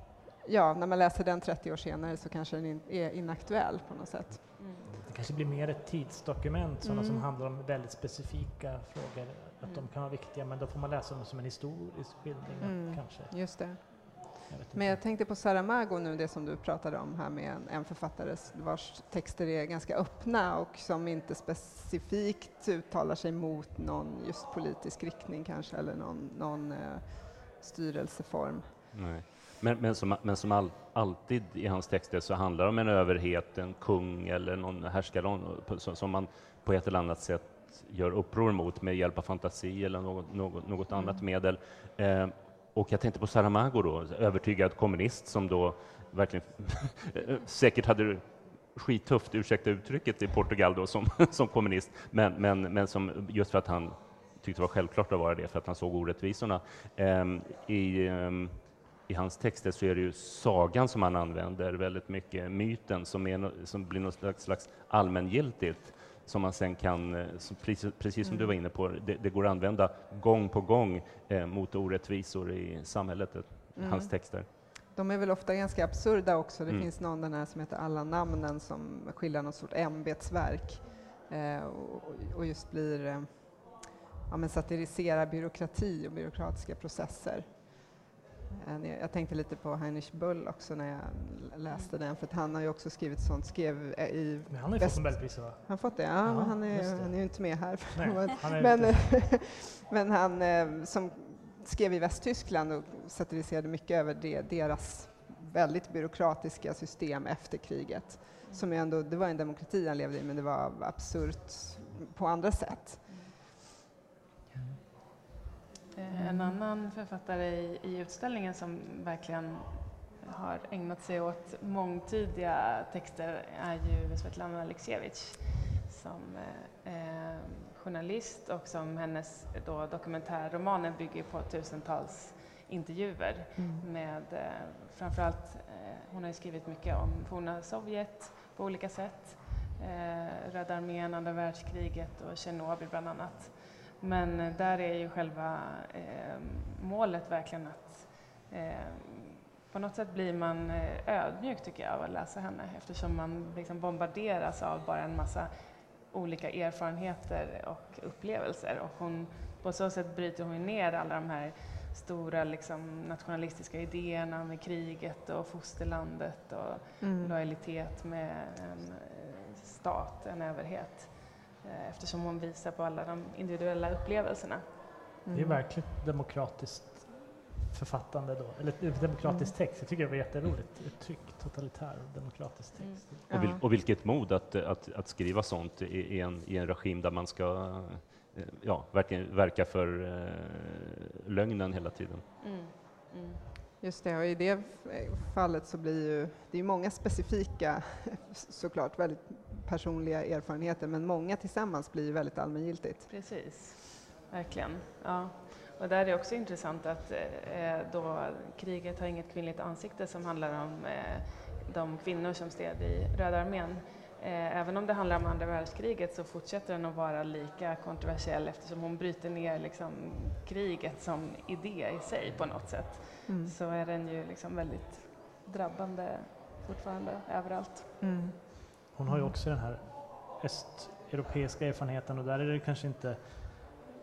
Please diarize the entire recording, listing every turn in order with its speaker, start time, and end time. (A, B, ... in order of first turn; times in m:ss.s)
0:00.4-0:04.7 A
0:04.6-0:04.9 B
0:04.9-0:15.0 C
0:06.8-0:07.3 A
0:12.6-0:28.8 A
0:28.9-1:14.5 D
0:40.9-0:41.2 B
1:08.2-1:08.5 A
1:13.8-1:28.0 A
1:28.6-1:53.2 A
1:34.5-1:39.2 C
1:48.4-1:48.7 B
1:53.1-1:53.3 B
1:54.5-1:54.8 C
1:55.9-2:54.6 B
1:56.1-1:56.6 A
2:13.6-2:13.9 A
2:47.0-2:47.3 A
2:55.2-2:55.6 A
2:55.3-3:03.3 C
2:59.2-2:59.5 A
3:02.8-3:03.0 B
3:03.3-3:03.6 A
3:03.3-3:12.2 D
3:12.4-3:13.4 B
3:13.8-3:23.1 A
3:23.1-3:48.1 B
3:43.3-3:43.5 A
3:48.0-3:49.4 A
3:48.9-3:53.7 C